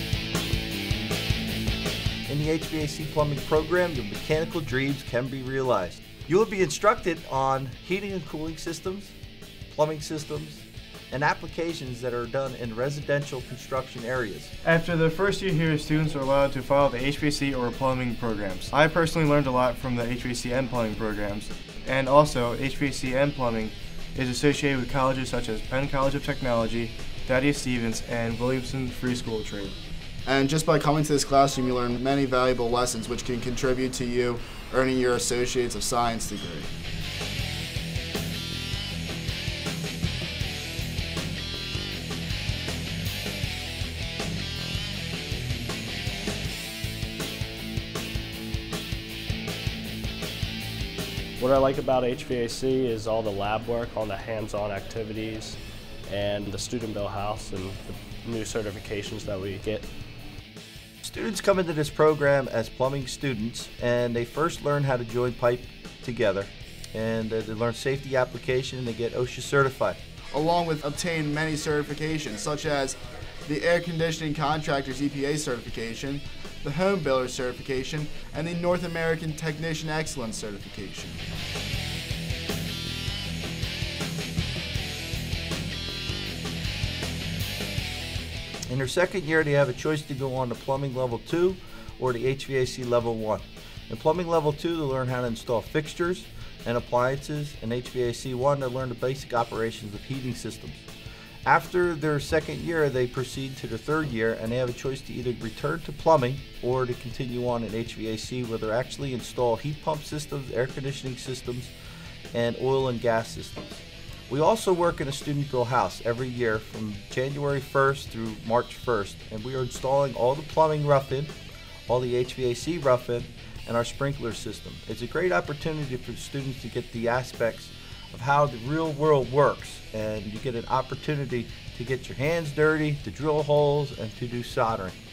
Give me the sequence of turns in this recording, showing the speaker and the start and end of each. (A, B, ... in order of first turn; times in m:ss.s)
0:02.3-0:09.2 A
0:09.7-0:14.5 A
0:14.6-0:29.8 B
0:30.3-0:36.7 C
0:51.4-0:59.9 D
1:01.0-1:10.0 A
1:10.3-1:21.2 C
1:28.7-1:40.8 A
1:41.5-1:51.7 A
1:52.3-2:01.3 A
2:01.9-2:15.0 A